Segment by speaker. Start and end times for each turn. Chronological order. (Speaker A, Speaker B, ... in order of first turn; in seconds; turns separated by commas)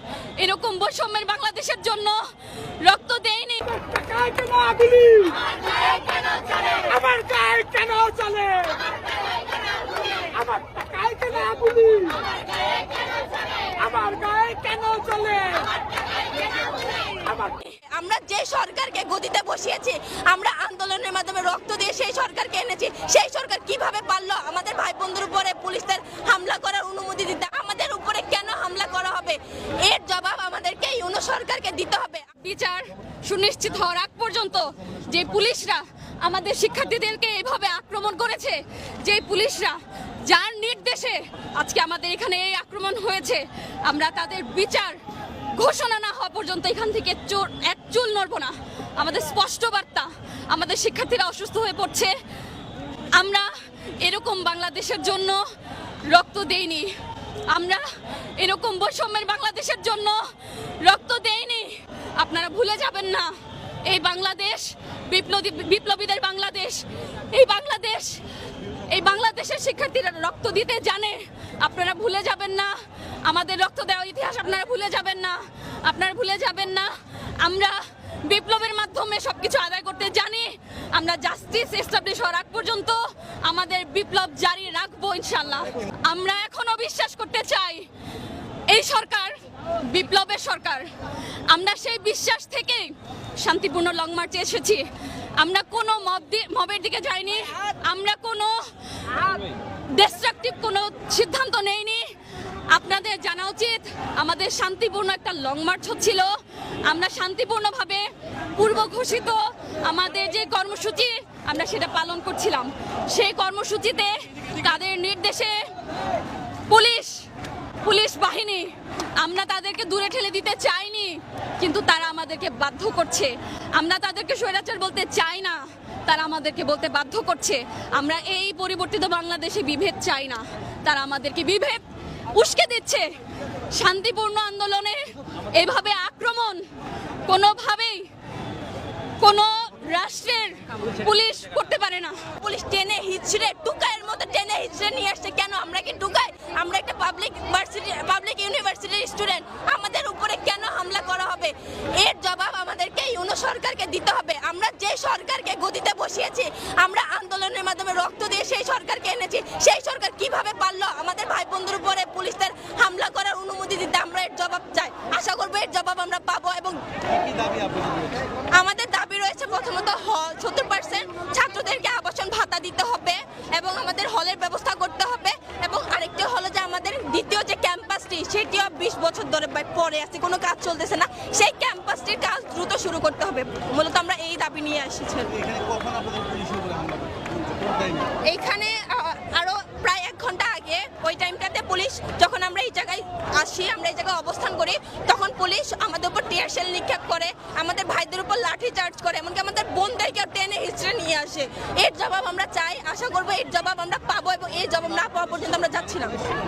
Speaker A: 0.4-2.2, Speaker A: 2.8-4.3, Speaker B: 4.1-5.4, Speaker B: 7.0-8.9, Speaker B: 10.4-12.2, Speaker B: 13.8-15.7, Speaker C: 13.8-14.8, Speaker C: 17.2-32.2, Speaker A: 32.4-45.0, Speaker A: 45.5-52.1, Speaker A: 53.2-53.5, Speaker A: 54.0-55.4, Speaker A: 56.1-56.9, Speaker A: 57.5-57.8, Speaker A: 58.4-60.2, Speaker A: 60.8-63.3, Speaker A: 63.9-68.2, Speaker A: 68.9-72.7, Speaker A: 73.2-87.8, Speaker A: 88.7-89.3, Speaker A: 89.8-90.9, Speaker A: 91.5-94.8, Speaker A: 95.4-98.5, Speaker A: 99.9-102.0, Speaker A: 102.7-106.3, Speaker A: 106.8-115.6, Speaker A: 116.7-117.1, Speaker A: 117.8-131.8, Speaker A: 132.3-133.1, Speaker A: 133.7-136.6, Speaker A: 137.3-138.1, Speaker A: 139.2-142.2, Speaker C: 142.4-166.8, Speaker D: 167.1-168.2, Speaker C: 168.5-185.4, Speaker D: 185.4-188.1, Speaker C: 188.2-206.2